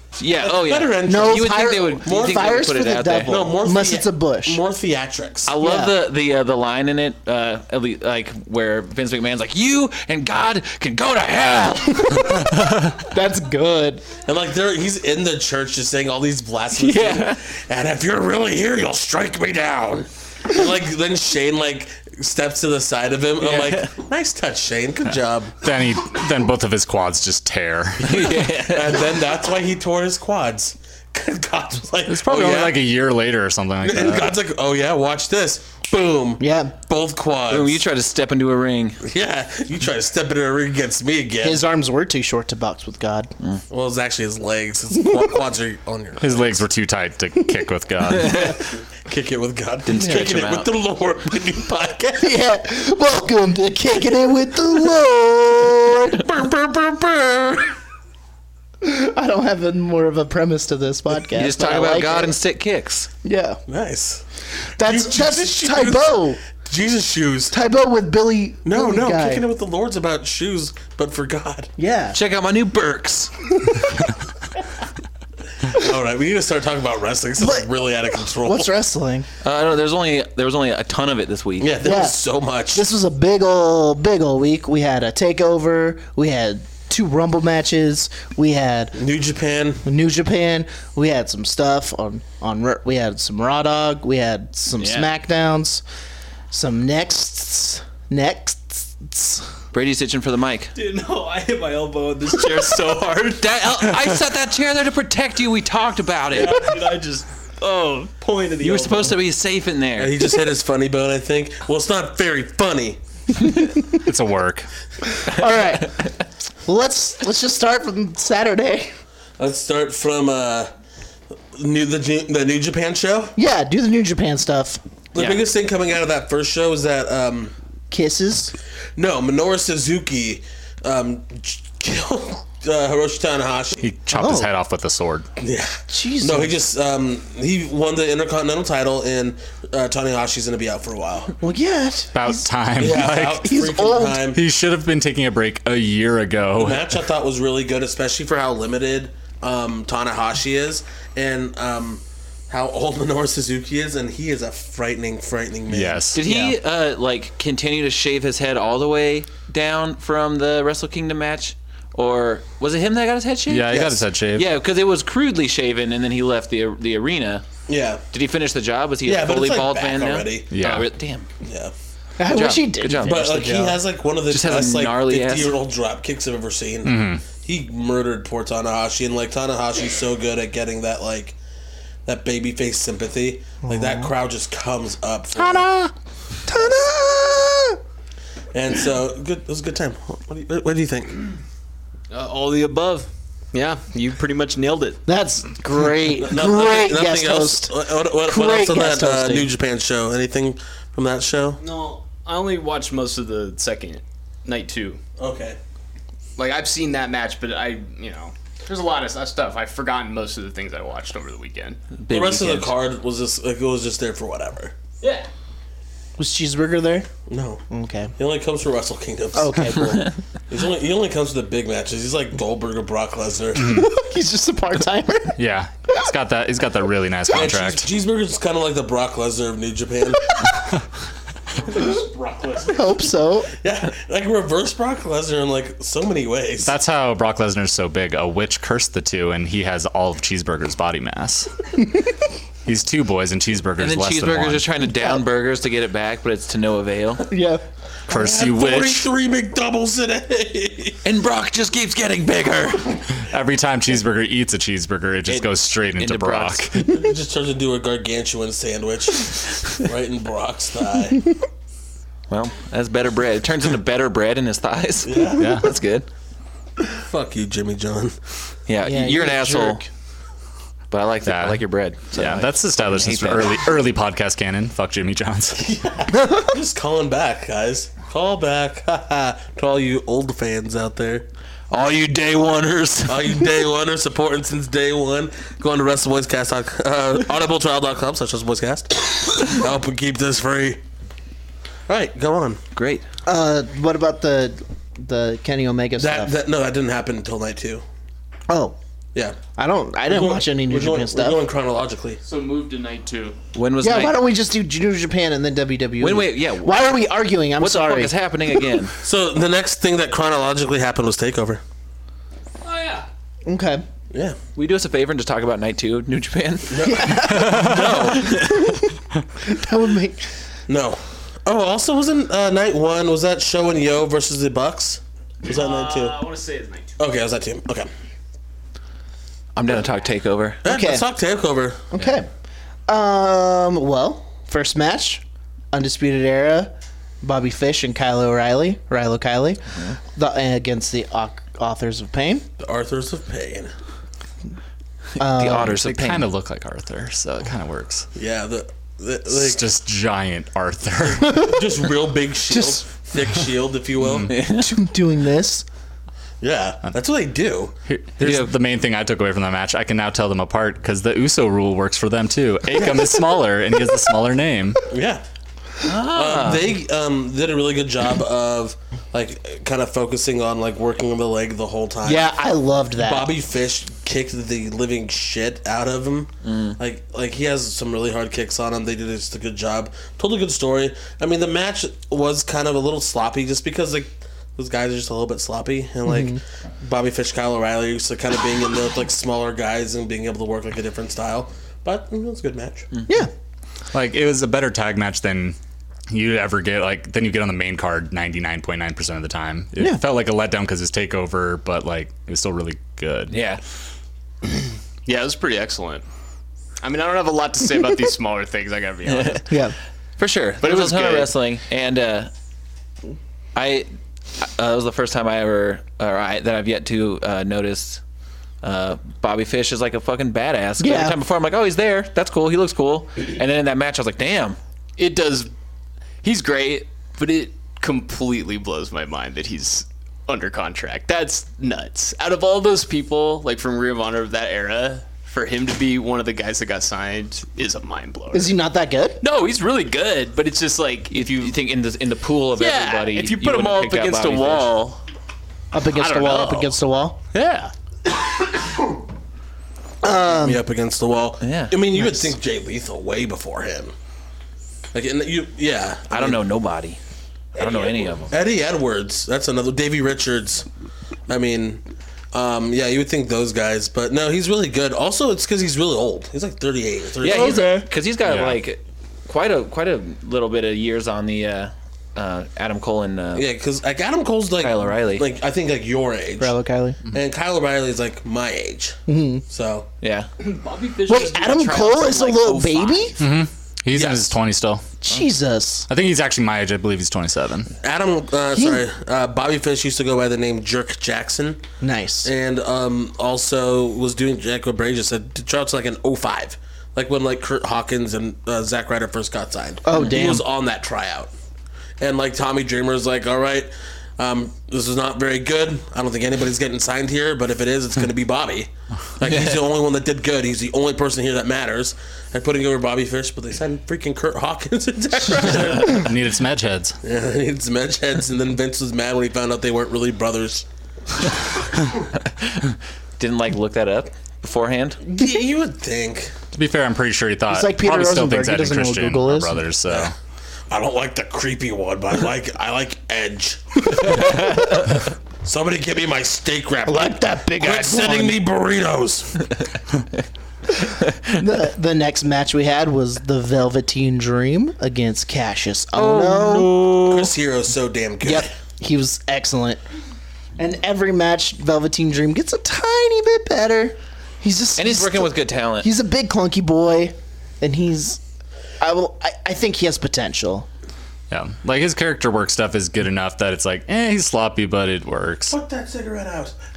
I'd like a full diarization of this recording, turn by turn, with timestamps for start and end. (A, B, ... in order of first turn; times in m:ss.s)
0:00.2-0:03.4 A
0:00.4-0:02.6 B
0:01.1-0:04.6 C
0:03.2-0:05.5 B
0:05.4-0:12.5 A
0:05.6-0:05.9 C
0:12.6-0:13.0 D
0:13.1-0:14.1 C
0:14.2-0:25.6 B
0:16.7-0:17.4 A
0:23.4-0:23.9 A
0:25.1-0:28.2 D
0:28.0-0:29.2 A
0:28.1-0:32.8 B
0:32.1-0:34.3 D
0:33.8-0:37.8 B
0:36.4-0:36.7 C
0:37.5-0:39.0 A
0:39.0-0:41.6 B
0:41.4-0:43.3 C
0:43.7-0:46.6 B
0:45.0-0:45.2 C
0:46.2-0:48.5 D
0:48.1-0:48.5 A
0:48.2-0:52.3 B
0:49.8-0:50.7 A
0:52.2-0:56.2 C
0:56.2-0:57.7 B
0:58.8-1:02.4 C
1:01.3-1:03.1 A
1:03.2-1:03.6 C
1:03.7-1:04.2 B
1:04.8-1:06.4 C
1:04.8-1:07.6 B
1:07.5-1:09.4 C
1:08.6-1:11.7 B
1:11.8-1:12.2 C
1:12.1-1:13.3 A
1:15.7-1:18.7 B
1:17.4-1:17.7 C
1:18.4-1:19.2 C
1:19.4-1:21.7 A
1:21.6-1:22.8 B
1:21.8-1:29.0 C
1:29.0-1:29.8 B
1:29.8-1:35.8 C
1:34.8-1:35.1 A
1:36.5-1:39.5 C
1:39.7-1:40.7 A
1:40.7-1:43.5 E
1:43.4-1:46.8 A
1:46.3-1:49.2 E
1:48.6-1:50.2 A
1:50.0-1:53.0 B
1:53.6-1:53.8 C
1:53.9-1:54.7 D
1:55.2-1:56.1 C
1:56.6-1:58.9 C
1:59.4-2:00.7 B
2:01.5-2:03.4 B
2:03.4-2:04.8 C
2:05.1-2:07.5 B
2:05.1-2:05.4 A
2:07.9-2:08.5 C
2:09.0-2:13.9 B
2:13.8-2:15.3 D
2:14.1-2:14.5 C
2:15.4-2:21.3 B
2:15.9-2:16.5 C
2:21.4-2:22.4 C
2:22.1-2:23.5 D
2:22.8-2:24.4 B
2:23.3-2:24.2 C
2:24.3-2:27.0 D
2:26.6-2:36.2 B
2:35.7-2:36.2 D
2:36.1-2:43.8 A
2:43.5-2:44.5 D
2:43.7-2:44.0 B
2:44.3-2:47.4 A
2:47.7-2:48.0 B
2:48.1-2:51.3 A
2:49.0-2:50.5 B
2:50.5-2:50.9 D
2:51.4-2:51.7 B
2:52.2-2:53.8 C
2:52.3-2:53.2 A
2:53.0-3:01.4 B
2:54.3-2:55.6 A
2:56.8-2:57.2 D
3:02.0-3:05.7 B
3:03.6-3:04.1 C
3:05.4-3:05.9 C
3:06.5-3:07.8 C
3:08.5-3:11.2 B
3:12.1-3:15.0 E
3:15.1-3:17.7 C
3:16.2-3:21.6 B
3:18.2-3:19.5 C
3:21.6-3:25.0 E
3:25.2-3:25.6 B
3:26.4-3:31.8 E
3:32.0-3:32.7 A
3:32.1-3:34.7 B
3:35.0-3:35.3 E
3:36.2-3:37.1 C
3:37.3-3:37.6 B
3:37.7-3:38.1 C
3:38.2-3:43.8 B
3:39.3-3:40.1 C
3:43.6-3:43.9 D
3:43.6-3:45.4 C
3:45.4-3:47.9 D
3:47.3-3:50.5 B
3:51.7-3:52.8 B
3:52.7-3:53.5 C
3:53.6-3:56.8 B
3:56.6-4:01.5 D
4:02.6-4:04.7 D
4:03.8-4:07.3 A
4:04.9-4:05.2 C
4:07.3-4:07.6 C
4:08.1-4:11.0 B
4:08.1-4:09.1 D
4:11.0-4:13.0 A
4:13.2-4:16.8 D
4:15.3-4:16.7 A
4:16.8-4:21.2 B
4:22.3-4:26.1 A
4:25.0-4:25.6 B
4:25.4-4:25.6 D
4:26.9-4:28.1 B
4:28.7-4:29.8 A
4:28.8-4:29.8 C
4:30.9-4:33.7 A
4:31.2-4:35.6 D
4:35.6-4:41.2 B
4:36.2-4:36.5 C
4:41.7-4:43.4 A
4:43.0-4:50.8 B
4:51.9-4:52.6 B
4:52.7-4:53.0 A
4:53.2-4:56.3 C
4:56.0-4:57.8 B
4:58.5-4:58.8 C
4:59.6-5:01.4 C
5:00.1-5:02.2 B
5:02.2-5:03.4 E
5:03.5-5:04.2 A
5:03.8-5:08.1 C
5:06.0-5:06.8 A
5:07.6-5:08.9 A
5:09.0-5:11.6 B
5:12.6-5:13.0 E
5:13.4-5:13.8 C
5:14.1-5:14.4 B
5:14.6-5:17.6 A
5:16.7-5:18.5 B
5:16.8-5:20.3 C
5:18.1-5:18.6 A
5:20.7-5:26.2 B
5:25.4-5:27.0 E
5:27.0-5:27.9 B
5:29.5-5:30.6 A
5:30.6-5:31.8 B
5:30.6-5:31.0 C
5:31.9-5:32.3 C
5:32.9-5:39.6 C
5:40.1-5:42.4 C
5:42.6-5:43.7 B
5:45.2-5:45.8 C
5:45.2-5:46.3 A
5:45.7-5:48.1 D
5:48.2-5:49.6 B
5:49.3-5:51.4 D
5:51.0-5:54.3 B
5:51.3-5:51.6 C
5:52.5-5:52.8 C
5:54.0-5:54.3 D
5:54.3-5:54.7 A
5:54.4-5:55.6 C
5:56.4-5:57.7 B
5:57.9-6:04.8 D
5:58.2-5:58.5 A
6:02.7-6:03.3 B
6:04.9-6:05.2 B
6:05.8-6:06.7 A
6:05.9-6:12.3 B
6:12.0-6:13.3 C
6:13.0-6:32.9 B
6:16.4-6:16.8 A
6:26.0-6:26.4 C
6:33.9-6:35.6 D
6:36.1-6:43.4 D
6:43.3-6:43.6 A
6:44.5-6:46.0 E
6:46.8-6:49.6 E
6:49.0-6:49.4 A
6:49.5-6:49.7 C
6:50.2-6:52.3 A
6:50.6-6:51.3 E
6:53.5-6:58.0 A
6:58.6-7:04.6 A
7:00.8-7:01.2 C
7:05.0-7:05.5 E
7:06.2-7:18.5 E
7:18.3-7:19.2 C
7:19.2-7:21.5 E
7:21.1-7:24.7 A
7:22.6-7:25.0 E
7:25.7-7:27.2 C
7:25.9-7:26.7 E
7:27.3-7:27.7 E
7:30.0-7:30.6 C
7:30.2-7:33.9 B
7:31.4-7:31.8 A
7:32.0-7:32.3 C
7:34.9-7:36.4 B
7:36.1-7:37.0 A
7:37.5-7:38.3 A
7:37.7-7:40.6 B
7:41.3-7:47.6 B
7:47.2-7:53.5 A
7:47.3-7:47.8 C
7:48.2-7:48.6 D
7:53.3-7:56.5 B
7:54.6-7:55.3 A
7:56.4-7:57.0 C
7:57.1-7:59.9 B
7:59.1-7:59.4 C
8:00.0-8:00.3 A
8:00.4-8:03.3 E
8:01.1-8:03.2 C
8:03.2-8:04.8 D
8:03.9-8:04.4 B
8:05.0-8:05.9 C
8:05.9-8:07.7 D
8:07.8-8:11.6 B
8:08.5-8:08.8 C
8:11.8-8:12.3 C
8:12.2-8:21.3 B
8:19.8-8:20.4 C
8:22.0-8:36.1 B
8:29.2-8:29.6 A
8:35.5-8:37.0 D
8:37.0-8:40.6 B
8:42.2-8:45.0 A
8:45.0-8:46.3 B
8:46.5-8:50.1 D
8:47.5-8:49.6 C
8:50.7-8:59.5 B
8:54.2-8:54.7 A
8:56.8-8:58.4 C
9:01.3-9:07.2 C
9:06.0-9:06.9 A
9:07.0-9:08.5 B
9:08.2-9:09.8 C
9:10.6-9:18.2 C
9:14.8-9:15.9 A
9:18.8-9:20.7 C
9:21.3-9:25.6 D
9:25.5-9:26.5 B